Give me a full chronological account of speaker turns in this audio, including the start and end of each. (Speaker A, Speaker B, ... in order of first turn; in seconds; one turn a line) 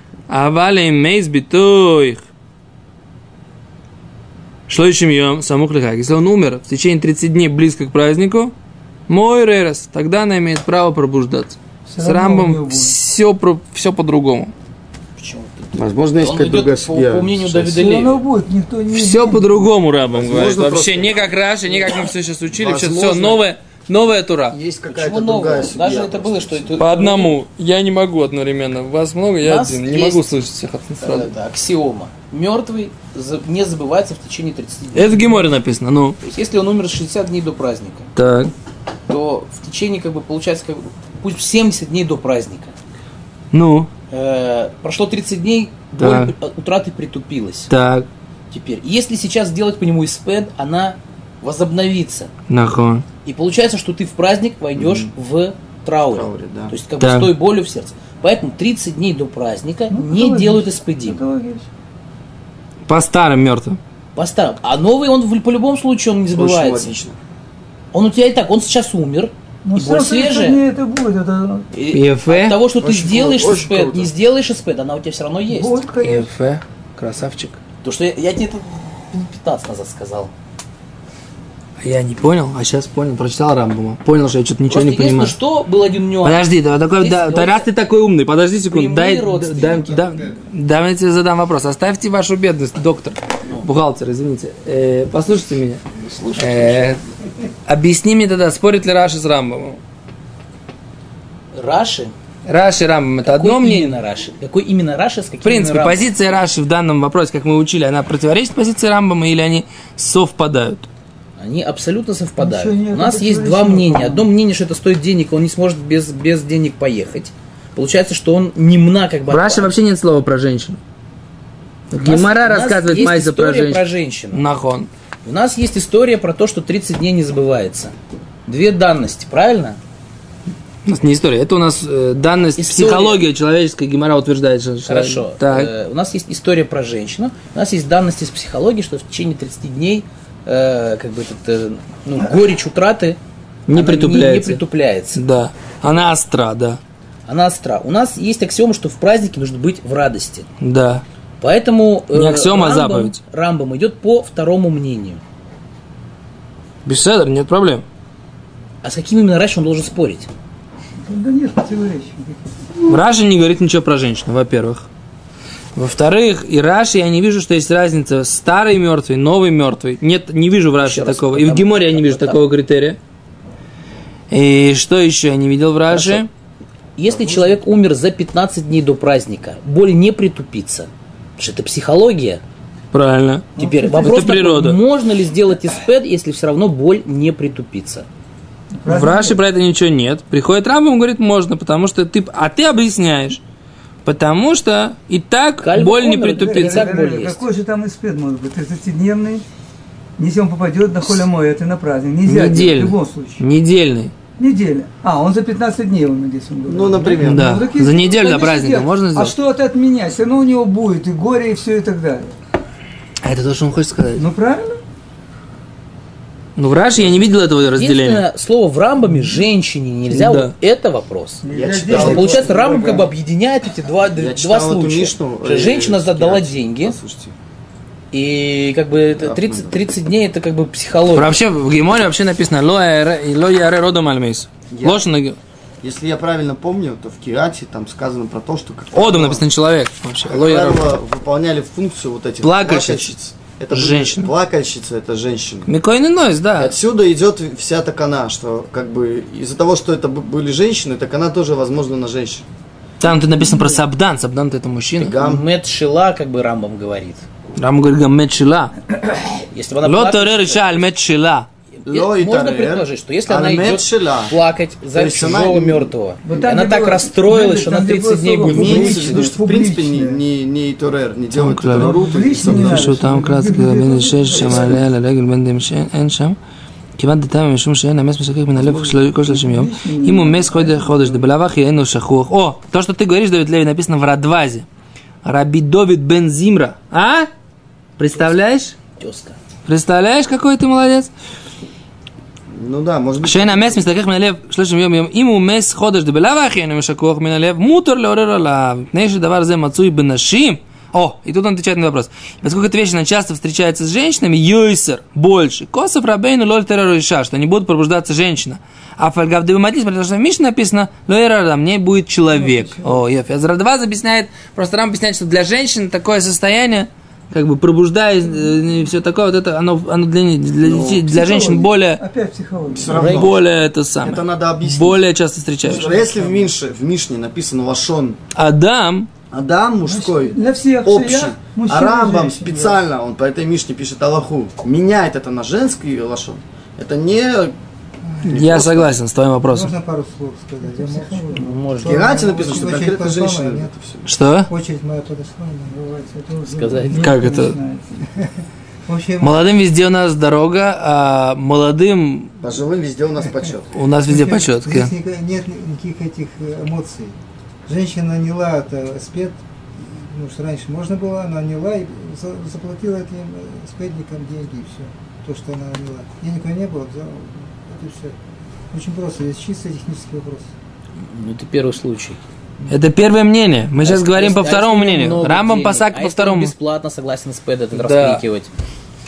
Speaker A: 0.3-2.2
Speaker A: 4.7-8.5
Speaker A: 9.1-14.5
Speaker B: 11.9-13.0
Speaker C: 15.2-18.2
Speaker D: 15.8-17.6
Speaker B: 17.6-19.7
Speaker A: 18.9-24.6
Speaker D: 20.1-21.2
Speaker D: 22.5-23.4
Speaker D: 24.5-26.9
Speaker C: 24.9-27.4
Speaker A: 26.8-31.3
Speaker C: 29.4-30.3
Speaker C: 31.0-35.5
Speaker A: 34.9-36.2
Speaker C: 36.2-38.1
Speaker A: 38.1-38.5
Speaker C: 39.1-42.7
Speaker A: 43.5-43.9
Speaker C: 44.1-47.7
Speaker A: 46.0-46.3
Speaker A: 47.7-48.1
Speaker C: 48.5-52.3
Speaker A: 52.5-53.1
Speaker C: 53.2-61.2
Speaker D: 54.8-55.1
Speaker D: 56.1-56.7
Speaker A: 57.0-57.3
Speaker B: 59.9-61.7
Speaker A: 62.9-63.8
Speaker C: 64.1-66.9
Speaker D: 66.3-67.2
Speaker C: 67.9-70.6
Speaker B: 69.6-71.7
Speaker C: 71.7-75.8
Speaker A: 71.9-72.6
Speaker D: 72.8-74.1
Speaker B: 75.5-76.3
Speaker A: 76.0-77.6
Speaker C: 77.8-80.3
Speaker A: 81.8-85.3
Speaker C: 84.7-87.7
Speaker A: 86.2-95.8
Speaker C: 88.7-90.2
Speaker C: 96.0-96.9
Speaker A: 96.4-97.0
Speaker A: 97.7-99.8
Speaker C: 101.5-102.1
Speaker A: 102.5-104.0
Speaker C: 103.2-106.1
Speaker A: 105.4-110.8
Speaker C: 111.4-119.7
Speaker B: 112.4-114.3
Speaker A: 119.3-120.8
Speaker A: 121.9-124.9
Speaker C: 121.9-124.4
Speaker C: 125.2-127.9
Speaker C: 128.5-129.8
Speaker A: 130.8-135.7
Speaker C: 132.6-133.2
Speaker C: 134.9-143.2
Speaker A: 143.7-144.6
Speaker C: 143.7-145.2
Speaker A: 145.1-146.8
Speaker C: 147.3-150.5
Speaker A: 150.6-151.0
Speaker C: 151.4-155.2
Speaker A: 152.1-153.2
Speaker A: 156.8-157.8
Speaker C: 158.8-160.3
Speaker B: 161.0-162.5
Speaker A: 162.9-164.9
Speaker A: 165.8-173.0
Speaker C: 170.8-172.4
Speaker A: 174.3-176.3
Speaker C: 175.9-176.2
Speaker C: 177.0-182.4
Speaker A: 182.9-184.8
Speaker B: 183.6-184.3
Speaker C: 183.6-188.1
Speaker B: 188.8-189.4
Speaker A: 188.9-193.4
Speaker A: 194.0-196.9
Speaker C: 195.6-197.4
Speaker B: 196.4-199.4
Speaker B: 200.2-203.4
Speaker A: 202.3-204.1
Speaker B: 204.4-212.3
Speaker D: 206.7-207.5
Speaker A: 207.2-209.3
Speaker A: 213.2-214.2
Speaker B: 214.2-214.8
Speaker A: 216.6-218.2
Speaker C: 217.7-227.0
Speaker A: 220.1-220.5
Speaker B: 221.4-223.1
Speaker D: 221.5-222.6
Speaker D: 224.1-227.3
Speaker C: 228.1-231.4
Speaker D: 229.2-229.8
Speaker A: 231.1-235.4
Speaker D: 234.7-235.1
Speaker D: 235.8-239.4
Speaker A: 238.9-240.9
Speaker D: 240.3-245.7
Speaker A: 242.4-243.1
Speaker A: 243.7-244.3
Speaker A: 245.7-246.8
Speaker D: 246.6-252.4
Speaker A: 253.0-255.2
Speaker D: 255.0-255.4
Speaker C: 255.2-257.3
Speaker A: 257.6-259.2
Speaker C: 259.5-260.8
Speaker A: 259.8-261.5
Speaker C: 261.8-269.3
Speaker D: 261.9-264.4
Speaker D: 264.9-265.9
Speaker B: 266.2-270.2
Speaker D: 268.4-273.0
Speaker A: 271.3-276.4
Speaker B: 271.7-274.8
Speaker A: 277.0-284.6
Speaker B: 278.6-281.3
Speaker A: 285.2-287.3
Speaker A: 288.0-288.8
Speaker C: 289.0-289.4
Speaker A: 289.7-291.1
Speaker D: 292.6-293.9
Speaker A: 293.2-322.0
Speaker B: 312.3-313.0
Speaker D: 320.6-321.1
Speaker B: 320.9-323.0
Speaker D: 322.7-323.4
Speaker C: 322.9-323.3
Speaker A: 322.9-325.9
Speaker D: 324.0-325.0
Speaker D: 325.6-328.2
Speaker B: 325.7-326.0
Speaker A: 328.4-329.1
Speaker D: 329.3-337.6
Speaker B: 329.9-332.8
Speaker E: 338.0-338.6
Speaker D: 338.2-339.0
Speaker A: 338.3-339.8
Speaker E: 339.4-343.7
Speaker B: 340.7-341.8
Speaker C: 341.3-342.3
Speaker D: 341.8-344.1
Speaker A: 344.1-344.5
Speaker E: 344.5-348.3
Speaker C: 346.5-347.1
Speaker B: 346.6-347.8
Speaker A: 346.9-347.6
Speaker E: 348.9-349.4
Speaker A: 349.2-352.3
Speaker D: 352.4-353.8
Speaker E: 353.1-357.1
Speaker A: 353.8-354.9
Speaker E: 357.7-368.1
Speaker E: 368.7-370.5
Speaker C: 371.1-372.2
Speaker A: 372.7-376.5
Speaker C: 373.8-378.5
Speaker A: 377.7-378.2